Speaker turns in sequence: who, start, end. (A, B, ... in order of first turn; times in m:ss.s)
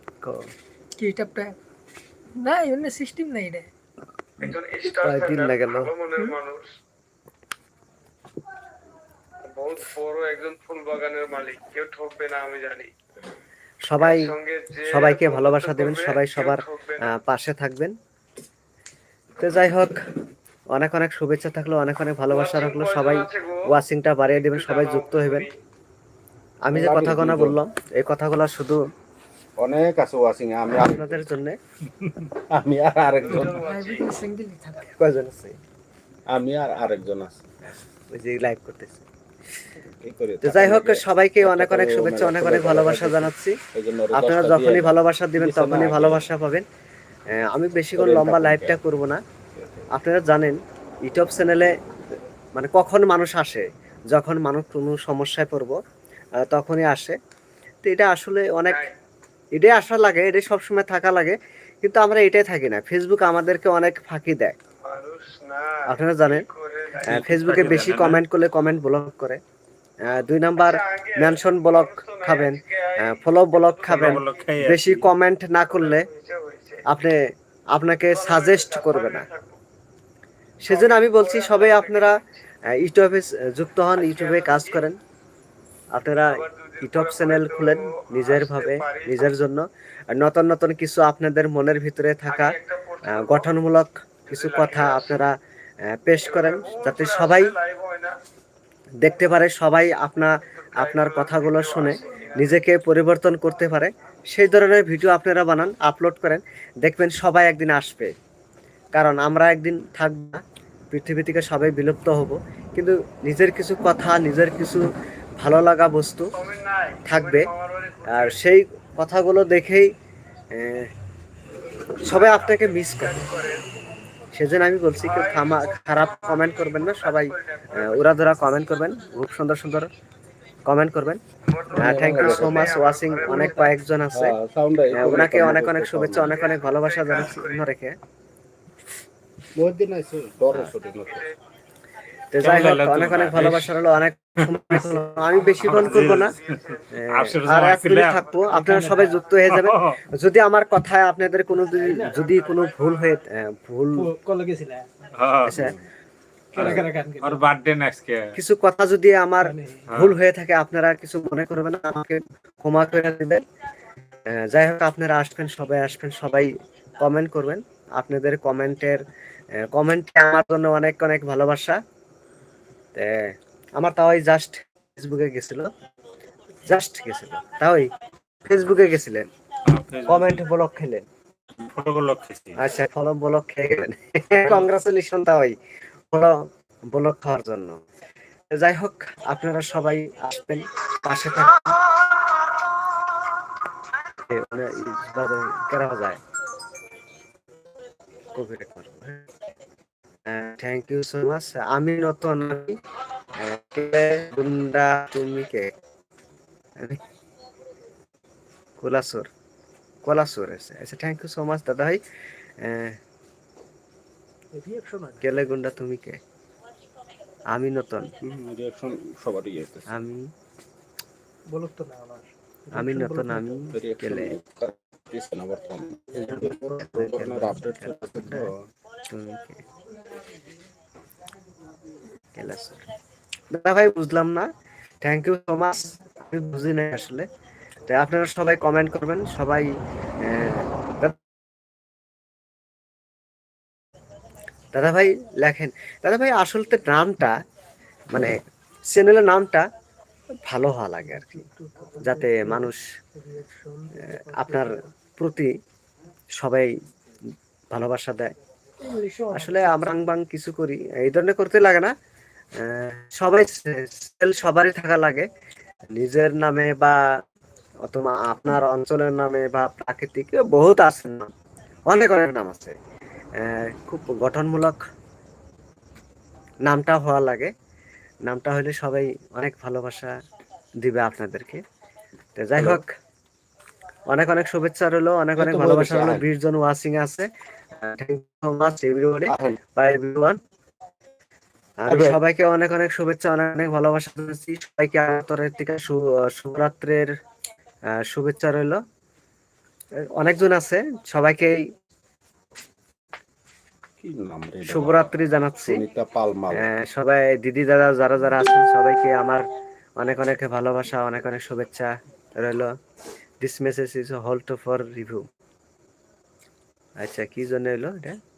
0:00.2-0:00.5 A
0:01.0-0:01.6 B
0:02.4-0:03.7 B
0:04.4-0:06.7 C
0:04.9-0:05.9 A
0:09.4-0:12.9 C
0:13.9-0:14.3 A
0:14.0-0:17.1 C
0:14.8-0:17.9 A
0:19.4-0:20.0 A
0:20.7-0:25.5 A
0:22.3-0:23.7 C
0:24.4-0:25.5 C
0:26.7-0:28.8 A
0:26.7-0:27.6 D
0:29.6-0:31.3 D
0:30.7-0:31.6 A
0:32.5-0:33.6 D
0:33.2-0:34.2 C
0:33.5-0:34.9 B
0:34.8-0:35.6 A
0:36.3-0:37.4 D
0:38.1-0:39.0 A
0:39.8-0:46.3 D
0:40.4-0:43.6 A
0:44.1-0:46.6 A
0:47.4-0:49.2 A
0:48.0-0:48.8 D
0:49.6-0:49.9 D
0:49.9-0:51.7 A
0:52.6-0:55.8 A
0:56.5-0:57.2 A
0:57.8-0:58.9 A
0:59.5-1:04.6 A
1:04.8-1:07.8 C
1:05.9-1:06.4 A
1:07.0-1:09.4 A
1:07.0-1:08.2 E
1:10.1-1:16.1 A
1:10.6-1:14.4 C
1:13.9-1:15.1 E
1:15.8-1:16.8 C
1:16.9-1:17.2 A
1:17.7-1:19.3 A
1:18.1-1:19.6 C
1:20.6-1:22.2 A
1:20.7-1:22.2 C
1:22.8-1:25.0 A
1:24.0-1:24.8 C
1:25.9-1:32.6 A
1:26.3-1:29.4 C
1:32.3-1:33.5 C
1:33.1-1:35.4 A
1:34.3-1:35.2 C
1:35.9-1:37.5 A
1:36.2-1:38.2 C
1:39.0-1:48.1 A
1:40.6-1:42.6 C
1:49.0-1:50.4 A
1:50.9-1:54.8 A
1:55.4-1:56.3 A
1:56.4-1:58.4 C
1:57.1-1:57.5 A
1:58.1-1:59.9 A
2:00.5-2:00.9 A
2:02.0-2:03.3 A
2:02.1-2:03.7 C
2:04.3-2:09.9 A
2:05.0-2:08.1 C
2:10.7-2:11.2 A
2:11.5-2:13.7 C
2:11.8-2:12.8 D
2:11.8-2:14.4 A
2:14.1-2:16.4 D
2:14.9-2:18.0 A
2:16.2-2:17.6 C
2:19.6-2:21.3 D
2:22.3-2:26.3 A
2:22.4-2:23.8 E
2:24.5-2:24.8 E
2:25.5-2:30.0 E
2:26.9-2:34.1 A
2:28.5-2:29.1 B
2:34.0-2:34.9 B
2:35.2-2:35.6 E
2:35.4-2:35.8 A
2:36.6-2:38.2 E
2:36.6-2:37.4 B
2:38.4-2:43.4 A
2:39.5-2:39.8 B
2:39.9-2:40.2 E
2:44.3-2:49.0 A
2:49.6-2:51.8 A
2:53.0-2:55.7 A
2:56.7-2:57.9 A
2:58.4-2:59.3 A
2:59.7-3:00.4 E
3:00.1-3:01.0 A
3:01.6-3:02.6 E
3:02.6-3:05.5 A
3:06.1-3:07.8 A
3:08.6-3:11.9 A
3:14.3-3:16.2 A
3:18.3-3:19.3 A
3:20.3-3:22.8 A
3:23.4-3:25.7 A
3:28.8-3:29.3 A
3:30.0-3:32.0 A
3:32.6-3:33.0 A
3:34.5-3:35.5 B
3:35.2-3:36.2 A
3:37.5-3:38.1 A
3:38.2-3:39.9 D
3:39.9-3:40.3 A
3:41.5-3:43.5 B
3:42.7-3:44.3 A
3:43.7-3:48.7 D
3:46.2-3:48.5 A
3:49.0-3:49.6 A
3:52.3-3:52.8 A
3:53.5-3:54.5 A
3:55.0-3:57.3 A
3:57.9-4:01.2 A
4:04.7-4:07.3 A
4:08.9-4:09.6 A
4:10.5-4:11.5 A
4:11.0-4:14.9 B
4:12.0-4:12.8 A
4:14.0-4:15.5 A
4:16.4-4:16.7 A
4:17.7-4:18.3 A
4:18.8-4:19.9 B
4:19.3-4:21.9 A
4:22.6-4:25.3 A
4:25.9-4:27.0 A
4:27.9-4:31.3 A
4:31.9-4:32.8 A
4:33.4-4:34.8 A
4:36.6-4:37.5 A
4:38.3-4:40.1 A
4:40.8-4:41.6 A
4:42.4-4:42.9 A
4:42.6-4:42.8 D
4:44.1-4:47.3 A
4:45.4-4:46.2 D
4:47.8-4:50.4 A
4:49.3-4:49.6 D
4:51.8-4:57.1 A
4:51.9-4:52.2 D
4:58.0-4:58.8 A
5:00.1-5:01.6 A
5:04.0-5:06.7 D
5:04.7-5:05.8 A
5:06.5-5:09.4 A
5:10.0-5:12.7 A
5:13.4-5:15.3 A
5:17.0-5:18.2 A